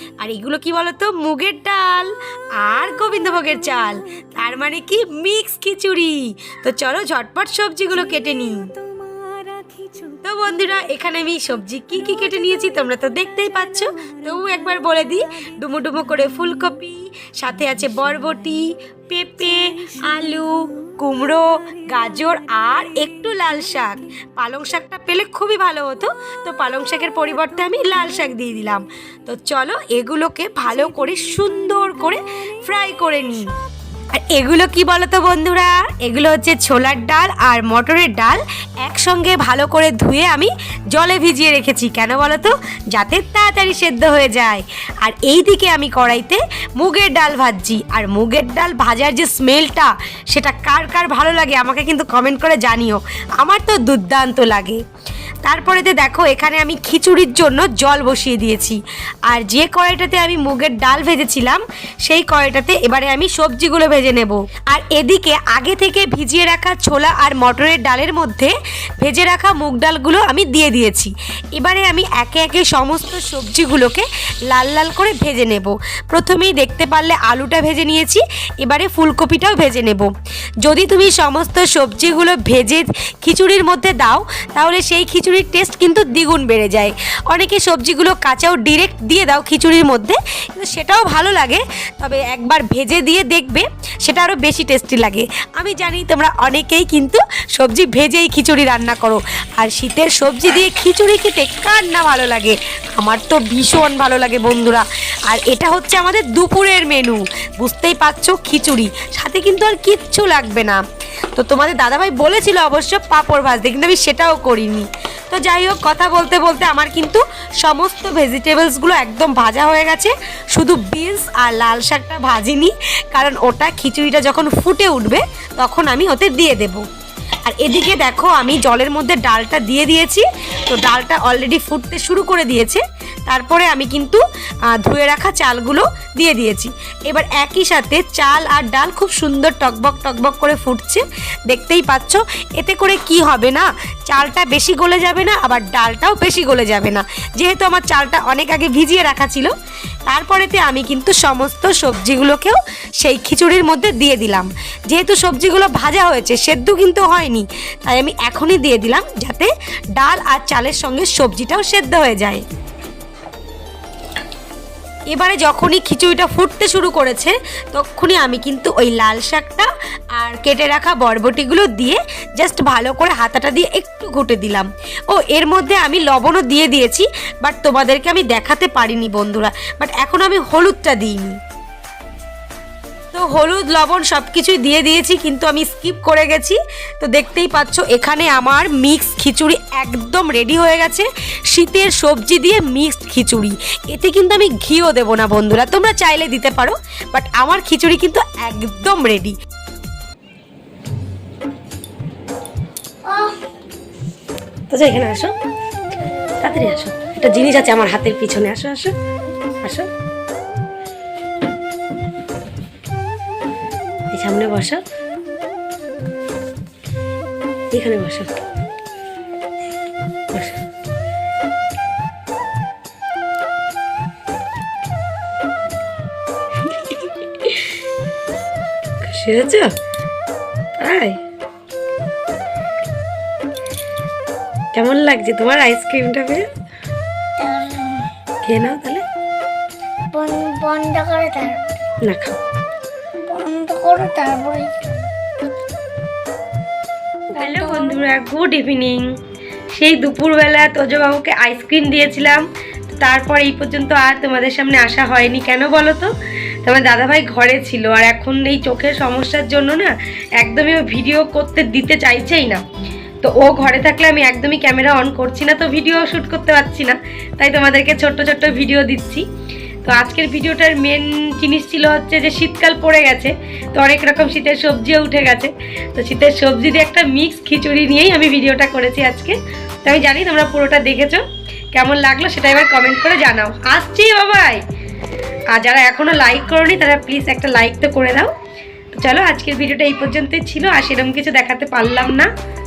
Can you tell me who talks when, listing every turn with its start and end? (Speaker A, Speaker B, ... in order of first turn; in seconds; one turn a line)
Speaker A: 0.2-8.7
Speaker A: 10.2-33.5
Speaker A: 34.1-54.8
Speaker A: 55.4-80.1
Speaker A: 80.6-110.8
Speaker A: 111.3-126.8
Speaker A: 127.4-134.2
Speaker A: 134.7-149.5
Speaker A: 150.1-162.4
Speaker A: 165.1-181.4
Speaker A: 183.1-199.3
Speaker B: 203.0-203.4
Speaker A: 204.7-205.3
Speaker A: 206.4-208.9
Speaker A: 209.6-209.9
Speaker A: 214.1-214.8
Speaker A: 217.7-218.3
Speaker A: 226.8-227.6
Speaker A: 229.0-229.7
Speaker A: 230.8-231.2
Speaker A: 234.7-236.5
Speaker B: 237.4-238.1
Speaker A: 238.4-239.0
Speaker B: 240.1-241.8
Speaker A: 242.0-242.4
Speaker B: 243.2-245.1
Speaker A: 247.3-249.1
Speaker B: 247.4-248.0
Speaker A: 249.7-256.1
Speaker A: 256.6-262.6
Speaker A: 263.2-269.3
Speaker A: 269.8-284.6
Speaker A: 285.5-288.3
Speaker A: 288.9-292.3